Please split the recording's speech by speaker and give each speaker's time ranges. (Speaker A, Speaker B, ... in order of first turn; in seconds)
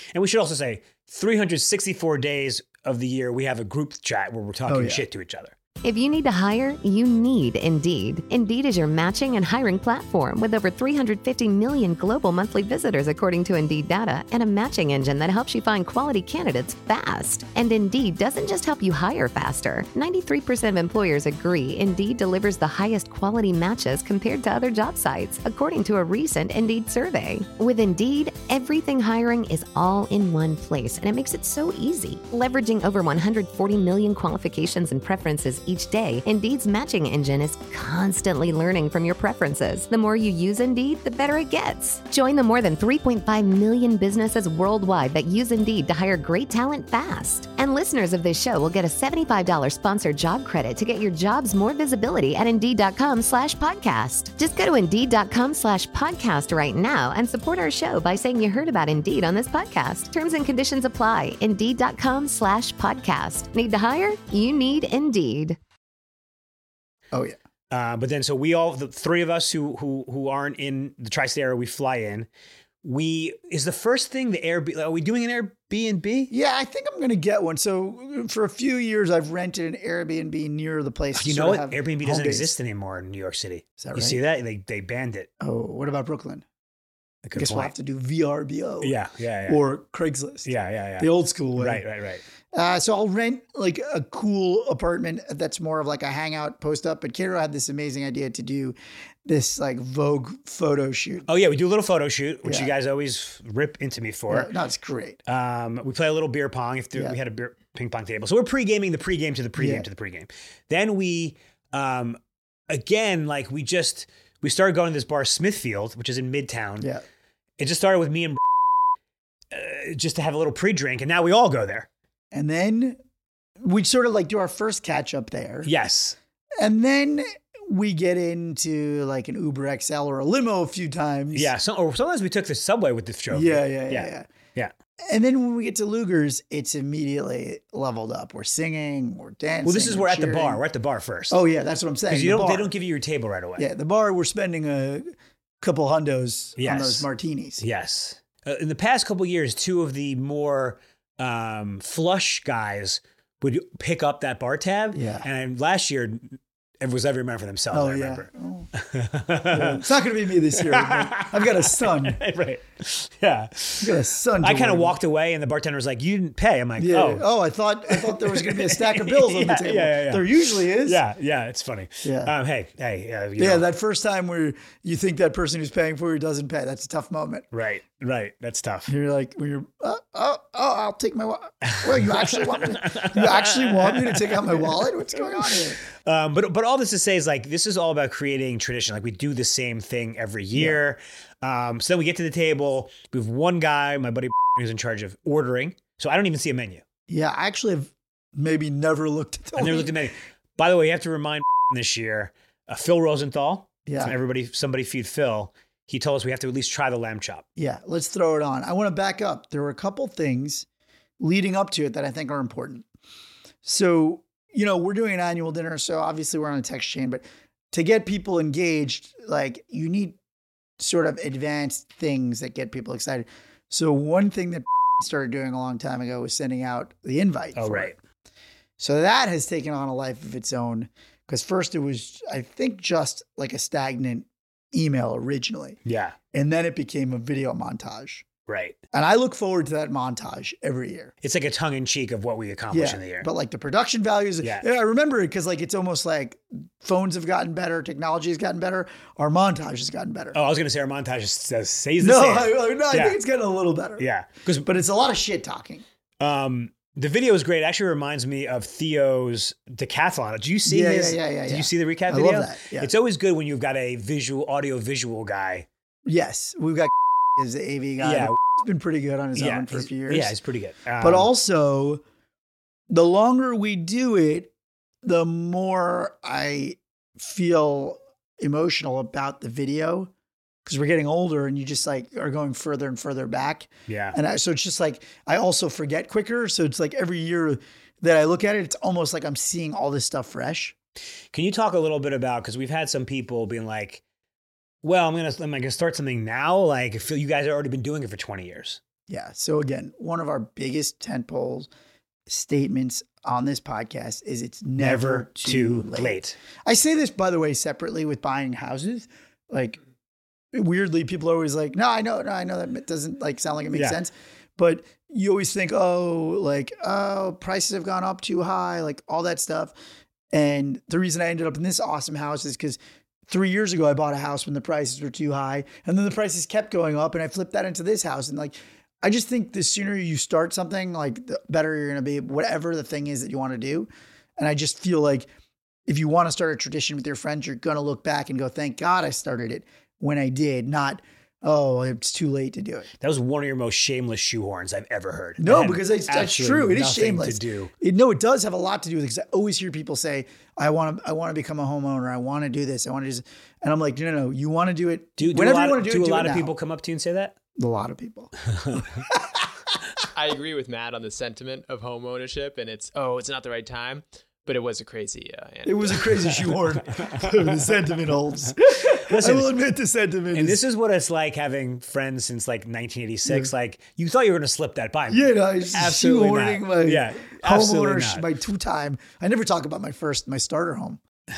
Speaker A: 0.1-5.5, 67.7-72.3, 72.8-76.3, 81.1-85.3, 87.2-87.7, 88.8-89.6, 90.4-92.2, 101.3-104.5, 105.3-112.2, 112.7-116.9, 117.6-118.5, 119.5-121.9, 125.6-126.2, 131.3-134.7, 139.6-141.4, 142.1-143.7, 146.6-147.1, 147.6-159.8, 160.5-167.2, 167.9-173.7, 177.5-178.9, 181.7-184.7, 185.4-196.8, 199.6-207.4, 227.5-227.9, 235.8-236.2, 238.5-238.8, 241.2-243.3, 250.3-253.2, 254.0-254.7, 256.2-265.7, 268.0-268.4, 269.4-271.3, 283.9-284.2, 291.3-294.0, 294.8-298.8, 304.8-306.4, 343.0-347.7, 355.2-357.4, 358.6-358.9, 368.7-369.6, 370.3-378.2
Speaker B: 4.7-5.0, 67.1-67.4, 76.3-82.5, 83.8-84.2, 85.4-86.4, 87.3-91.8, 92.5-101.3, 102.4-102.7, 104.3-105.2, 109.5-109.8, 122.3-123.0, 123.6-125.7, 126.6-131.5, 133.3-134.3, 135.1-140.6, 141.3-142.7, 143.6-145.1, 145.6-147.6, 154.9-155.2, 157.7-158.7, 159.5-162.2, 163.8-164.9, 166.8-171.0, 172.0-172.3, 173.4-177.5, 178.9-185.8, 197.1-200.0, 203.8-204.1, 207.6-210.7, 211.2-212.8, 213.6-220.2, 220.8-227.9, 228.8-235.8, 236.3-238.2, 238.9-241.1, 242.7-250.4, 252.0-254.0, 254.6-255.8, 260.6-262.9, 266.1-270.3, 271.0-272.0, 272.9-274.5, 275.0-280.1, 280.6-290.7, 299.1-301.7, 302.3-309.8, 310.5-319.7, 320.3-335.3, 335.9-342.9, 345.4-356.5, 357.6-359.4, 365.6-370.6, 373.2-373.5, 375.1-381.0
Speaker C: 5.8-65.6
Speaker D: 360.1-366.6